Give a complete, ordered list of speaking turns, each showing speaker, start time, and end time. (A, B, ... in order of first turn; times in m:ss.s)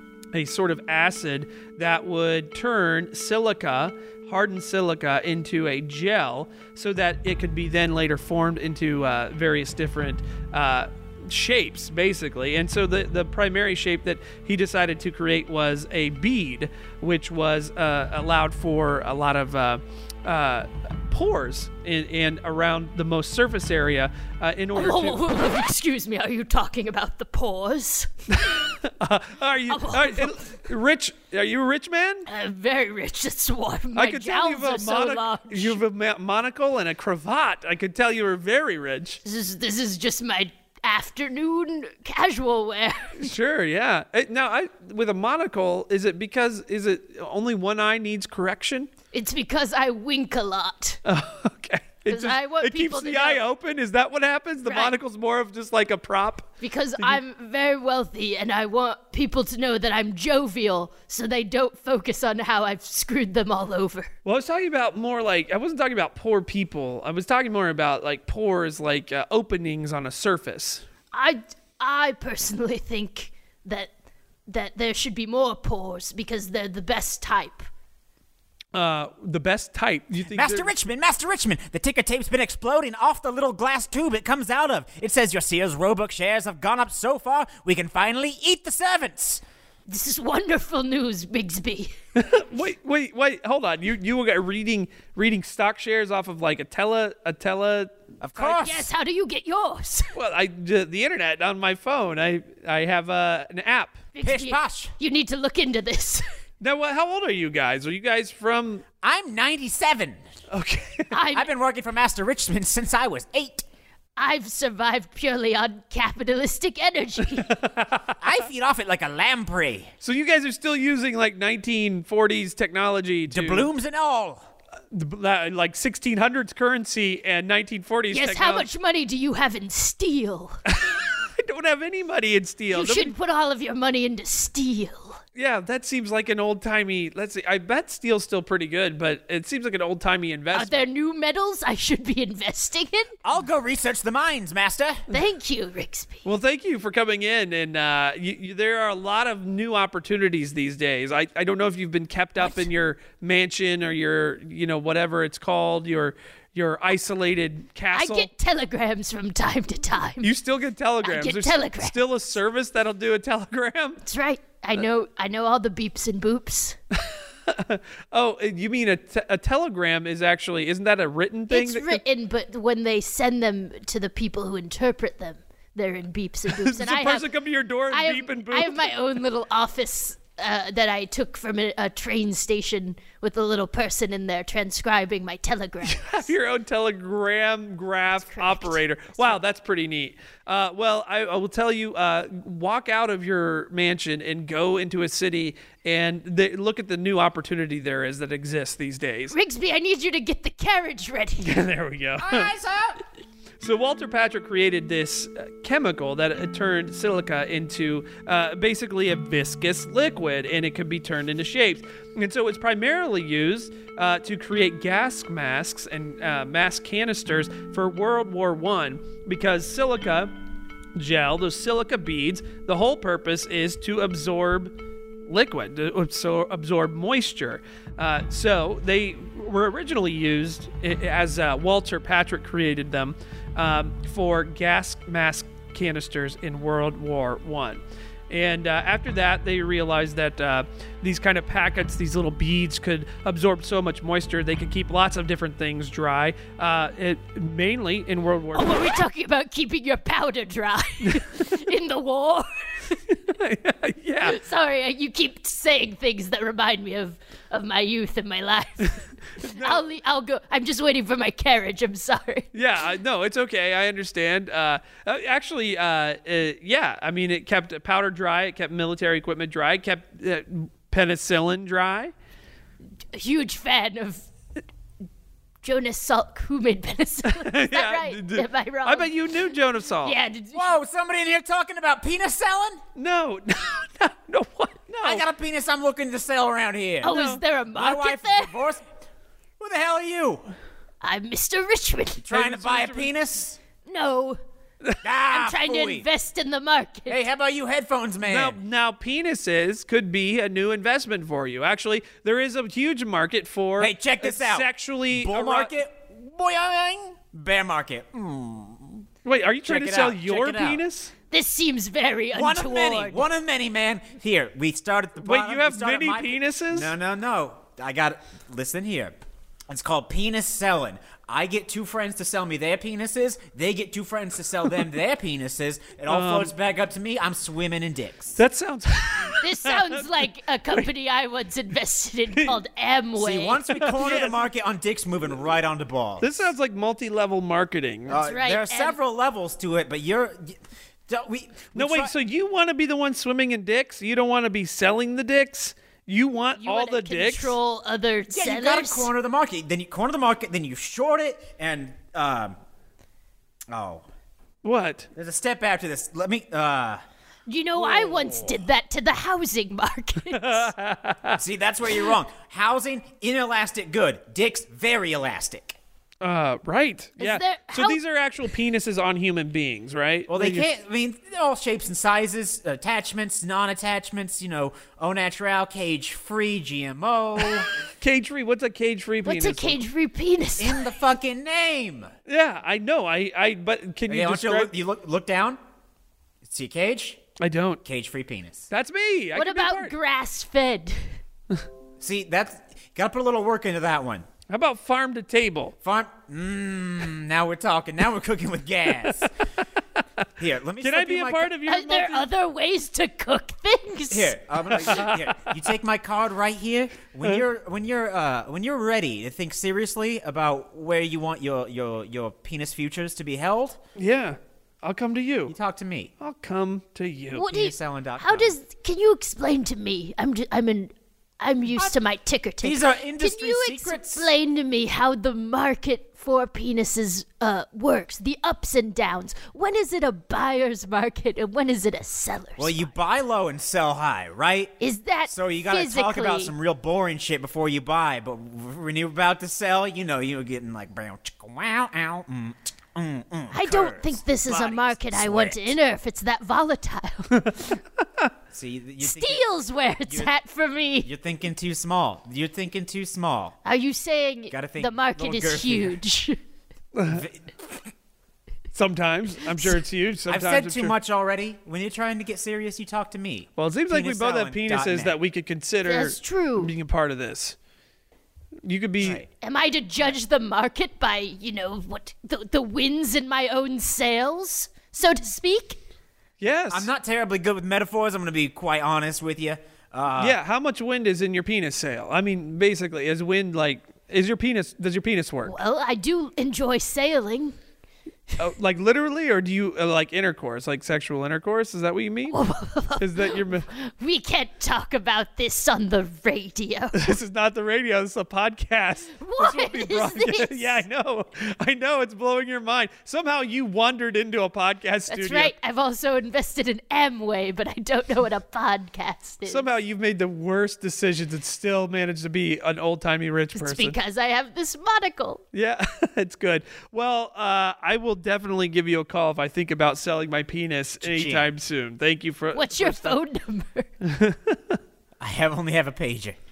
0:00.3-0:25.2 A
0:24.7-0:28.7 B
0:28.4-0:32.3 A
0:29.7-0:30.5 B
0:32.3-0:35.8 B
0:34.0-0:39.2 A
0:39.2-0:43.3 B
0:43.2-0:48.9 A
0:49.1-0:51.0 B
0:51.0-0:57.2 A
0:52.1-0:53.4 B
0:54.6-0:54.9 B
0:56.6-1:04.1 B
1:04.2-1:10.8 A
1:11.1-1:13.9 B
1:14.4-1:17.7 B
1:18.7-1:20.7 A
1:20.2-1:29.4 C
1:29.9-1:31.9 B
1:32.2-1:37.9 A
1:38.2-1:38.9 C
1:38.4-1:40.1 B
1:40.1-1:44.0 A
1:44.1-1:46.2 B
1:44.2-1:44.9 C
1:46.6-1:48.8 A
1:49.0-1:50.2 C
1:50.5-1:51.1 A
1:51.1-1:51.5 B
1:51.3-1:53.6 C
1:54.2-1:57.5 B
1:57.4-1:58.2 A
1:58.2-1:59.9 C
2:00.0-2:03.7 A
2:03.3-2:04.5 C
2:04.9-2:08.7 A
2:08.1-2:10.6 B
2:10.6-2:13.1 A
2:12.7-2:15.2 B
2:15.3-2:20.8 A
2:20.5-2:23.1 B
2:23.2-2:25.0 C
2:25.1-2:26.2 B
2:26.2-2:38.3 A
2:32.4-2:32.7 B
2:37.9-2:40.3 B
2:40.2-2:44.0 A
2:41.0-2:42.0 B
2:44.0-2:46.8 B
2:47.0-2:52.0 A
2:51.5-2:57.3 B
2:56.5-2:59.0 A
2:57.9-3:06.3 B
3:05.8-3:19.3 A
3:08.2-3:09.4 B
3:19.3-3:21.6 B
3:21.4-3:22.5 A
3:22.2-3:23.0 C
3:23.6-3:40.3 A
3:40.9-3:44.7 A
3:45.2-4:08.9 A
4:08.5-4:13.0 B
4:11.0-4:11.6 A
4:13.1-4:14.4 A
4:14.2-4:22.5 B
4:19.4-4:19.8 A
4:22.5-4:32.1 A
4:33.1-4:34.2 B
4:35.6-4:39.1 B
4:37.3-4:40.1 A
4:40.0-4:40.7 B
4:40.5-4:42.8 C
4:43.0-4:45.2 A
4:45.0-4:47.2 C
4:47.0-4:47.4 A
4:47.0-4:48.6 B
4:47.7-4:48.9 C
4:49.6-4:50.5 C
4:51.0-4:52.2 B
4:52.2-4:53.6 C
4:52.3-4:53.1 A
4:53.8-4:54.4 B
4:55.0-4:56.1 C
4:55.3-4:57.2 B
4:57.1-4:58.6 C
4:58.2-5:05.7 A
5:03.8-5:09.0 C
5:09.2-5:11.1 A
5:09.6-5:10.8 C
5:11.3-5:13.2 B
5:12.3-5:19.1 C
5:15.2-5:16.9 A
5:19.7-5:28.4 C
5:26.1-5:26.5 A
5:28.4-5:30.8 A
5:29.4-5:33.6 B
5:33.2-5:36.3 C
5:33.7-5:34.4 A
5:36.2-5:38.2 A
5:38.1-5:42.1 C
5:38.2-5:39.0 B
5:41.7-5:47.6 A
5:46.6-5:49.1 B
5:48.3-5:52.6 C
5:53.7-5:54.0 C
5:54.6-5:55.1 A
5:55.1-5:57.0 C
5:57.5-6:00.7 B
5:57.8-5:58.5 C
6:00.3-6:01.4 A
6:01.4-6:05.8 C
6:06.2-6:10.7 A
6:07.2-6:08.0 B
6:10.3-6:17.7 C
6:17.6-6:19.8 A
6:19.2-6:21.0 B
6:20.6-6:22.1 C
6:22.3-6:24.7 A
6:24.1-6:25.6 C
6:26.4-6:27.2 C
6:27.4-6:27.8 A
6:27.8-6:28.7 C
6:28.7-6:29.9 A
6:29.3-6:31.2 B
6:32.0-6:34.2 C
6:34.5-6:35.7 A
6:35.8-6:39.3 C
6:40.4-6:41.5 C
6:40.8-6:42.3 A
6:41.6-6:44.7 B
6:44.1-6:53.8 C
6:44.7-6:45.5 A
6:54.0-6:55.5 A
6:55.5-6:56.1 C
6:56.2-6:57.4 A
6:57.3-7:12.9 B
6:57.5-6:58.5 C
7:02.6-7:04.3 C
7:12.6-7:14.7 C
7:14.8-7:16.5 B
7:15.3-7:25.8 C
7:23.5-7:27.8 B
7:28.5-7:29.4 C
7:29.0-7:31.1 B
7:30.1-7:30.3 C
7:31.0-7:33.6 C
7:33.6-7:36.4 B
7:34.5-7:36.0 C
7:36.9-7:37.2 A
7:37.1-7:37.9 C
7:38.7-7:40.9 A
7:40.3-7:45.2 C
7:43.6-7:47.6 A
7:45.8-7:46.7 B
7:48.6-7:49.2 A
7:49.0-7:49.3 C
7:49.4-7:55.8 B
7:56.4-7:56.9 A
7:56.7-8:00.4 C
8:00.2-8:05.5 A
8:05.4-8:07.6 B
8:08.4-8:12.4 A
8:12.3-8:17.1 B
8:13.0-8:13.7 A
8:16.9-8:25.5 A
8:19.2-8:20.8 B
8:25.1-8:29.6 B
8:29.4-8:34.0 A
8:33.5-8:35.4 B
8:35.5-8:43.2 A
8:41.0-8:41.5 C
8:42.5-8:43.9 B
8:44.0-8:44.8 A
8:45.2-8:46.4 C